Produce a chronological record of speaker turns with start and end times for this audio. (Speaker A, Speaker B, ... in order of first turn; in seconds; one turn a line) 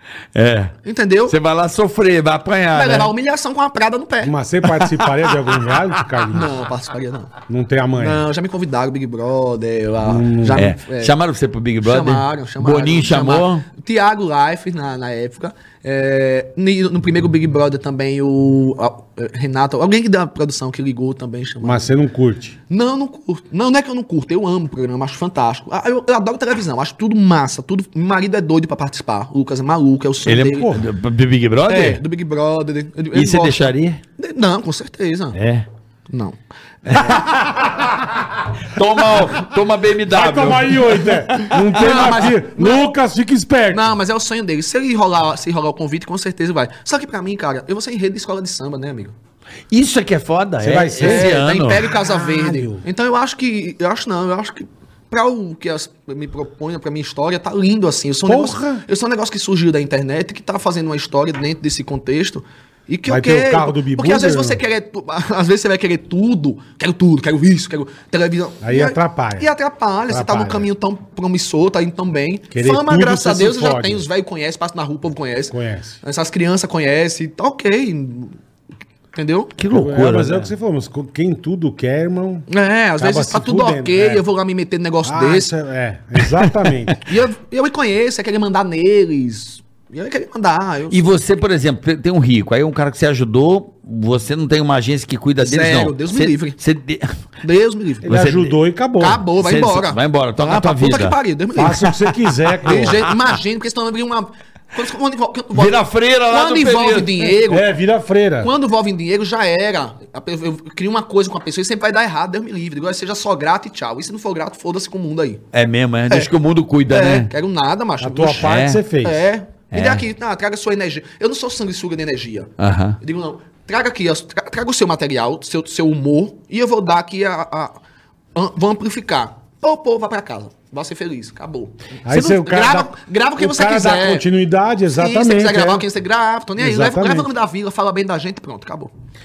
Speaker A: 0.3-3.1
Speaker B: 0.8-1.4
Speaker B: 2.7-4.3
Speaker C: 4.2-6.5
Speaker A: 4.8-5.1
Speaker B: 6.3-7.3
Speaker C: 7.5-8.2
Speaker B: 8.0-11.1
Speaker C: 10.0-10.6
Speaker A: 10.5-13.7
Speaker B: 11.8-21.9
Speaker C: 21.6-22.6
Speaker B: 22.7-30.8
Speaker A: 30.3-32.0
Speaker C: 30.4-30.8
Speaker B: 31.7-35.4
Speaker A: 33.1-34.0
Speaker A: 35.3-35.7
Speaker B: 36.1-37.2
Speaker A: 36.9-38.0
Speaker A: 38.6-42.2
Speaker C: 40.1-44.0
Speaker B: 41.7-42.9
Speaker B: 43.7-49.1
Speaker A: 49.7-51.9
Speaker C: 50.6-51.4
Speaker B: 51.0-78.4
Speaker C: 51.9-52.8
Speaker C: 58.3-58.8
Speaker C: 63.1-64.6
Speaker C: 68.6-69.5
Speaker C: 70.1-70.7
Speaker C: 72.5-74.1
Speaker C: 75.5-76.0
Speaker B: 79.1-79.5
Speaker A: 79.6-80.5
Speaker C: 79.7-82.5
Speaker B: 82.5-85.5
Speaker C: 83.0-84.2
Speaker C: 85.0-87.0
Speaker A: 86.4-86.7
Speaker B: 87.0-91.2
Speaker A: 90.9-97.1
Speaker B: 95.4-96.6
Speaker B: 97.4-98.1
Speaker C: 98.0-99.2
Speaker A: 98.1-98.6
Speaker B: 99.0-101.9
Speaker A: 99.4-101.2
Speaker C: 101.5-103.0
Speaker B: 102.6-107.7
Speaker A: 102.7-103.0
Speaker A: 105.5-107.4
Speaker C: 107.5-108.5
Speaker B: 108.4-115.4
Speaker A: 115.5-117.3
Speaker B: 116.9-127.8
Speaker C: 118.0-119.3
Speaker A: 118.4-118.8
Speaker A: 119.7-120.0
Speaker A: 122.6-123.0
Speaker B: 128.3-134.2
Speaker C: 132.1-135.8
Speaker B: 134.9-138.9
Speaker C: 136.6-137.3